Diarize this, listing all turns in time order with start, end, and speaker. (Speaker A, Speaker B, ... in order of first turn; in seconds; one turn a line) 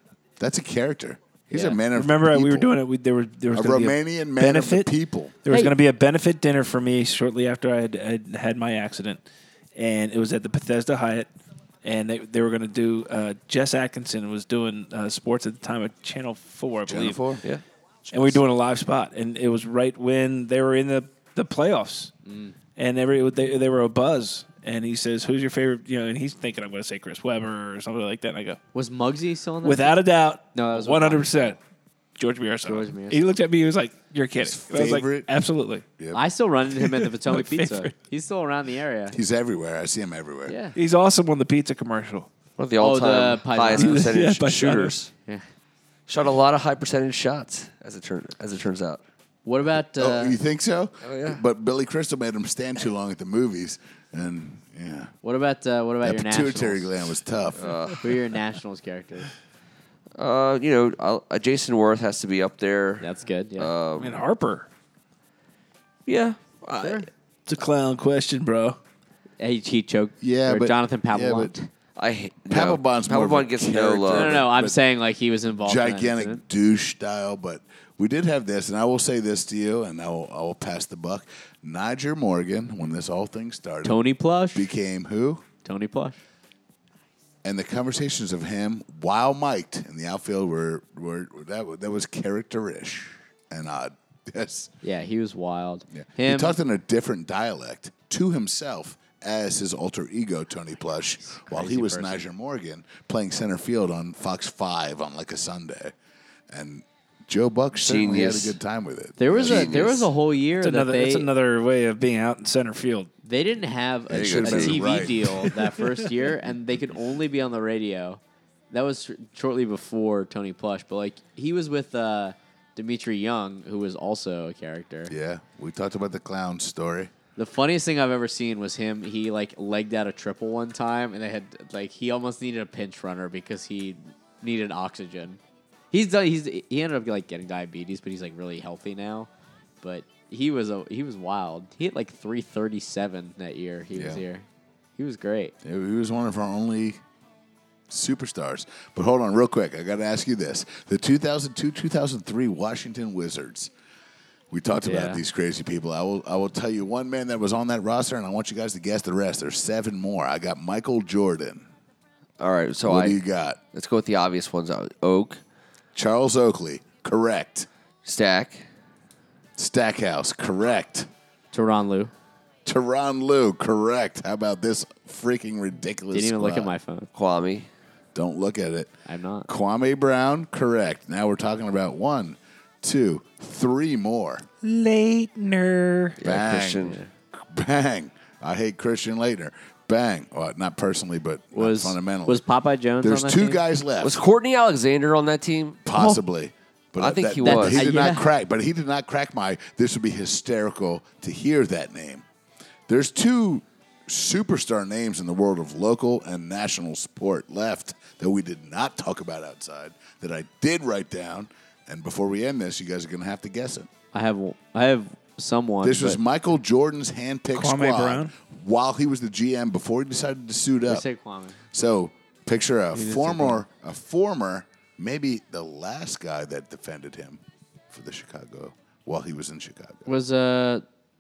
Speaker A: 0.4-2.7
Speaker B: 1.5-1.8
Speaker C: 1.9-4.9
Speaker A: 3.5-5.4
Speaker C: 5.4-9.2
Speaker B: 5.5-5.7
Speaker C: 9.8-11.3
Speaker C: 11.8-17.2
Speaker A: 16.9-17.4
Speaker D: 17.4-18.4
Speaker C: 18.1-22.1
Speaker B: 22.2-22.5
Speaker C: 22.8-28.6
Speaker B: 28.7-30.0
Speaker C: 29.6-31.6
Speaker B: 30.5-31.2
Speaker C: 32.2-35.9
Speaker B: 32.6-33.2
Speaker A: 34.4-35.3
Speaker B: 36.1-39.2
Speaker C: 36.8-37.9
Speaker A: 39.1-40.5
Speaker B: 40.5-40.8
Speaker C: 40.8-42.3
Speaker D: 42.6-45.1
Speaker B: 42.8-44.1
Speaker C: 43.7-45.0
Speaker D: 46.1-49.0
Speaker B: 49.5-50.4
Speaker A: 50.0-55.1
Speaker D: 51.0-51.4
Speaker B: 55.2-57.1
Speaker A: 56.0-57.7
Speaker D: 57.6-58.1
Speaker B: 58.0-59.3
Speaker D: 60.1-64.2
Speaker B: 63.0-63.7
Speaker C: 64.0-64.7
Speaker D: 66.1-67.0
Speaker B: 66.8-67.1
Speaker C: 67.5-68.8
Speaker B: 69.4-71.7
Speaker A: 70.2-71.5
Speaker D: 72.0-74.4
Speaker A: 72.5-74.8
Speaker B: 74.1-76.4
Speaker A: 75.6-85.4
Speaker B: 83.8-84.7
Speaker B: 85.6-86.2
Speaker A: 87.4-94.7
Speaker B: 94.8-96.6
Speaker A: 95.9-105.9
Speaker B: 101.5-102.2
Speaker A: 106.5-109.9
Speaker D: 107.8-108.6
Speaker B: 109.2-111.3
Speaker D: 109.4-110.1
Speaker C: 110.6-113.1
Speaker B: 113.2-125.1
Speaker A: 114.1-115.5
Speaker D: 114.1-115.1
Speaker C: 115.3-116.0
Speaker A: 125.1-127.1
Speaker B: 127.4-135.4
Speaker B: 135.9-139.3
Speaker B: 139.8-144.4
Speaker A: 143.9-144.2
Speaker B: 145.0-145.5
Speaker A: 145.6-147.0
Speaker A: 147.9-153.7
Speaker A: 154.5-161.7
Speaker B: 154.8-155.2
Speaker D: 162.4-163.2
Speaker A: 162.8-163.6
Speaker D: 163.7-165.4
Speaker A: 165.9-167.7
Speaker D: 168.1-168.7
Speaker A: 169.6-171.1
Speaker B: 171.5-172.1
Speaker A: 172.7-176.7
Speaker B: 176.1-177.1
Speaker D: 177.2-177.7
Speaker A: 178.1-178.9
Speaker B: 179.1-179.5
Speaker A: 179.5-184.5
Speaker C: 184.6-186.2
Speaker D: 186.2-187.0
Speaker A: 186.2-192.4
Speaker B: 191.5-193.6
Speaker A: 193.0-194.2
Speaker D: 194.0-195.8
Speaker A: 195.8-202.2
Speaker B: 195.9-196.2
Speaker D: 197.0-197.8
Speaker B: 197.4-198.3
Speaker A: 202.9-213.9
Speaker B: 214.1-216.2
Speaker A: 215.8-221.1
Speaker C: 217.5-218.3
Speaker B: 220.9-221.6
Speaker A: 221.7-230.1
Speaker B: 222.9-223.6
Speaker B: 230.1-230.8